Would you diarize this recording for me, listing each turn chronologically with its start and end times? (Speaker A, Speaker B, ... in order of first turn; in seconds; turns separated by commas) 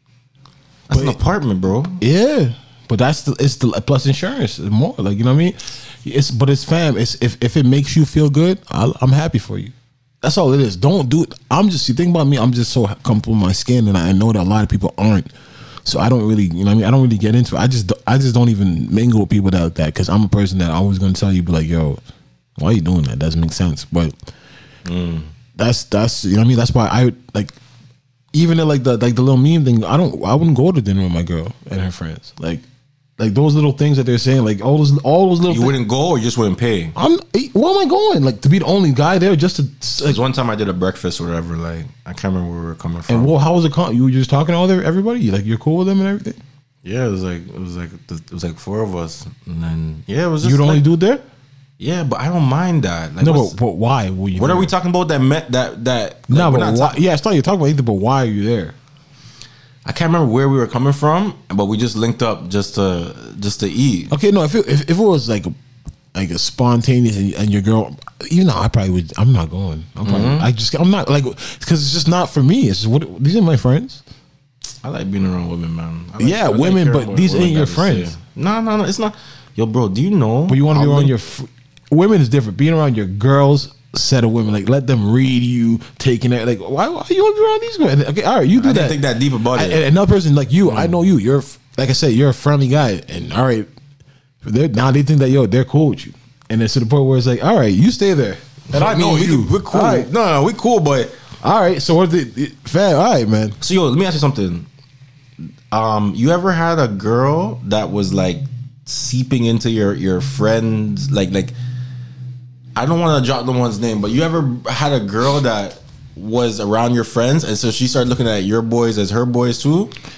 Speaker A: 0.9-2.0, Speaker B: 0.9-1.2, Speaker B: 2.0-15.3, Speaker B: 15.8-22.0, Speaker B: 22.6-24.1, Speaker A: 24.8-25.3, Speaker B: 25.6-27.6, Speaker B: 28.3-32.6, Speaker B: 33.2-35.8, Speaker A: 35.5-36.9, Speaker B: 37.0-40.2, Speaker A: 40.0-43.3, Speaker B: 43.1-46.4, Speaker A: 46.8-50.9, Speaker B: 50.4-51.2, Speaker A: 51.8-53.6, Speaker B: 53.2-54.7, Speaker A: 54.3-57.0, Speaker B: 56.3-58.7, Speaker A: 59.8-64.1, Speaker B: 64.1-65.5, Speaker B: 66.1-74.0, Speaker A: 70.0-70.5, Speaker A: 74.8-81.1, Speaker B: 76.2-78.2, Speaker B: 80.5-93.7, Speaker A: 88.5-89.8, Speaker A: 90.7-90.9, Speaker B: 94.4-100.1, Speaker A: 98.7-101.2, Speaker B: 101.4-103.6, Speaker A: 103.6-104.7, Speaker A: 105.7-111.5, Speaker A: 112.8-119.9